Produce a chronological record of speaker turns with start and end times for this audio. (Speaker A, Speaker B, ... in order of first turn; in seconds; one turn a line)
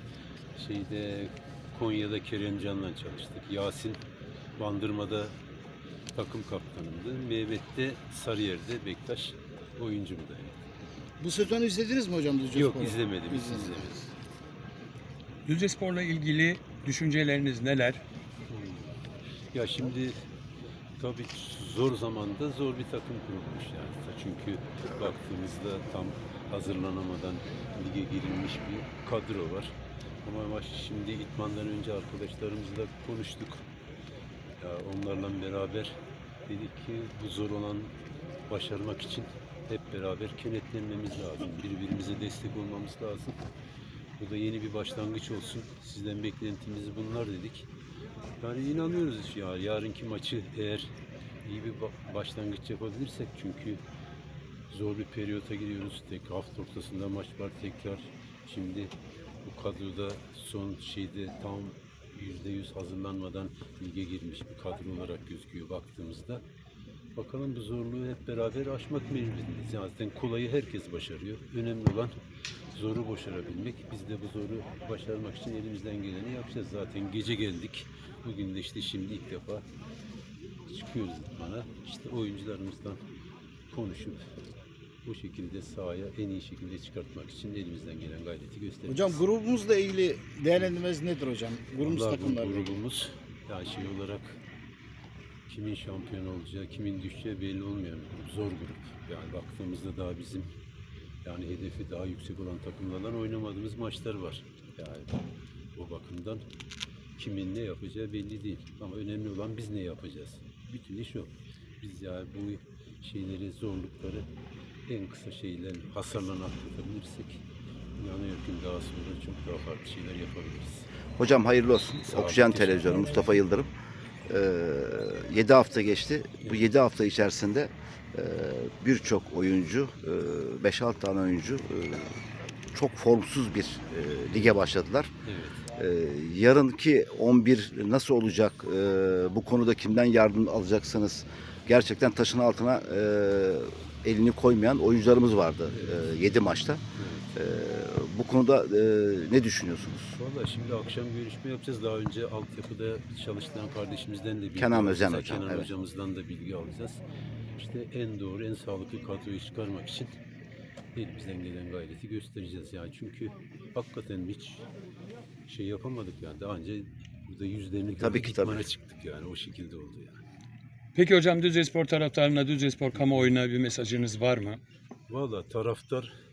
Speaker A: 0.6-4.0
Speaker A: 4.6-5.3
Speaker A: 6.1-10.6
Speaker B: 11.2-13.9
Speaker A: 12.5-14.2
Speaker C: 15.5-18.0
Speaker A: 18.5-19.0
Speaker A: 19.5-20.3
Speaker A: 21.0-33.7
Speaker A: 34.6-38.0
Speaker A: 38.5-43.4
Speaker A: 44.2-47.7
Speaker A: 48.4-50.9
Speaker A: 51.4-53.8
Speaker A: 54.7-66.4
Speaker A: 67.2-72.2
Speaker A: 72.7-79.7
Speaker A: 80.7-83.0
Speaker A: 83.7-84.3
Speaker A: 85.0-89.2
Speaker B: 88.9-92.7
Speaker A: 91.8-94.4
Speaker A: 95.5-100.5
Speaker A: 101.2-105.2
Speaker A: 105.8-106.5
Speaker A: 107.2-114.3
Speaker A: 114.9-117.4
Speaker A: 118.0-120.9
Speaker D: 121.2-123.7
Speaker A: 121.8-123.1
Speaker D: 124.3-135.1
Speaker A: 126.4-126.7
Speaker A: 135.2-135.7
Speaker D: 135.7-146.8
Speaker A: 145.7-146.2
Speaker A: 146.9-147.4
Speaker D: 147.4-150.2
Speaker A: 150.1-157.0
Speaker D: 154.6-155.7
Speaker A: 157.6-160.2
Speaker A: 160.9-164.7
Speaker A: 165.5-170.2
Speaker D: 168.0-168.7
Speaker C: 170.9-174.6
Speaker A: 173.0-173.3
Speaker A: 175.1-176.1